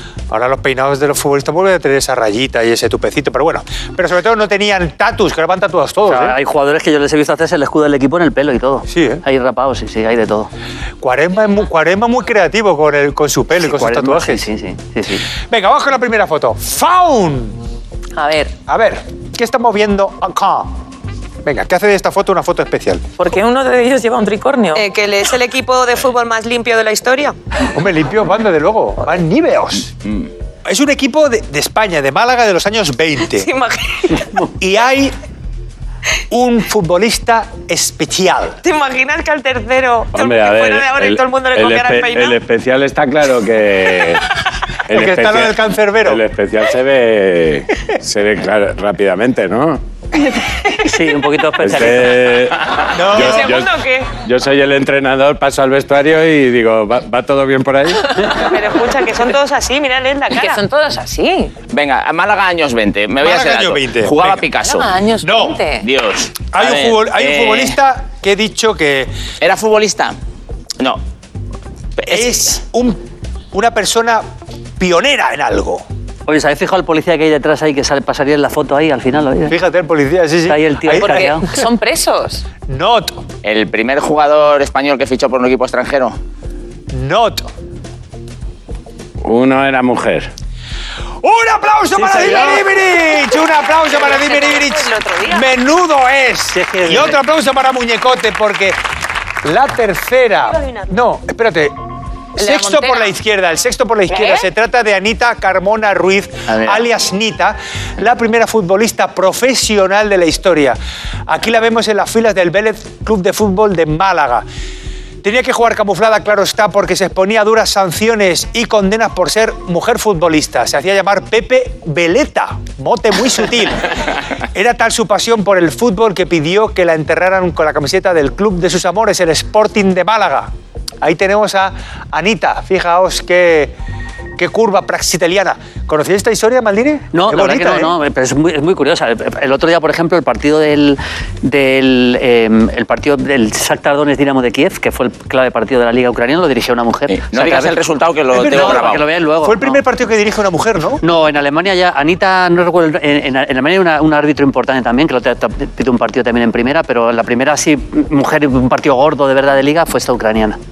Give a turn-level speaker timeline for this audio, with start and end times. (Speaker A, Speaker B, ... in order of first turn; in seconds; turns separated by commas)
Speaker A: 0.3-6.3, Speaker B: 6.0-10.5, Speaker A: 8.9-9.2, Speaker A: 11.0-14.4, Speaker B: 13.6-15.2, Speaker A: 15.5-17.6, Speaker C: 18.1-18.5, Speaker A: 18.7-20.8, Speaker A: 21.4-23.0, Speaker C: 23.2-24.8, Speaker D: 24.7-27.3, Speaker A: 27.7-29.9, Speaker A: 30.6-33.5, Speaker D: 33.4-34.3, Speaker A: 34.5-35.1, Speaker A: 36.3-38.6, Speaker D: 38.6-42.4, Speaker E: 40.1-44.2, Speaker E: 44.9-49.8, Speaker A: 44.9-46.2, Speaker B: 50.8-52.2, Speaker E: 51.6-58.2, Speaker A: 52.9-53.6, Speaker D: 53.1-54.1, Speaker D: 58.3-60.6, Speaker C: 60.3-61.5, Speaker F: 61.7-64.9, Speaker A: 63.2-64.4, Speaker C: 64.6-65.8, Speaker A: 65.2-65.6, Speaker F: 65.8-67.8, Speaker A: 66.5-69.1, Speaker F: 69.4-70.2, Speaker A: 72.0-73.0, Speaker F: 72.1-72.6, Speaker A: 73.5-74.2, Speaker A: 74.8-75.8, Speaker B: 76.3-79.5, Speaker A: 79.5-81.3, Speaker B: 80.5-81.5, Speaker C: 81.0-82.4, Speaker A: 82.7-83.2, Speaker F: 83.4-86.2, Speaker A: 86.9-87.5, Speaker E: 89.2-90.3, Speaker A: 91.2-98.8, Speaker B: 91.9-92.6, Speaker D: 93.8-95.5, Speaker B: 96.5-97.2, Speaker A: 99.4-101.7, Speaker D: 100.5-100.9, Speaker A: 102.4-114.4, Speaker C: 102.4-103.1, Speaker F: 106.5-106.8, Speaker A: 115.2-123.9, Speaker A: 124.5-130.5, Speaker A: 131.0-133.7, Speaker A: 134.4-137.9, Speaker B: 137.1-147.8, Speaker F: 147.1-149.0, Speaker A: 148.3-151.0, Speaker B: 148.3-149.8, Speaker B: 151.0-160.6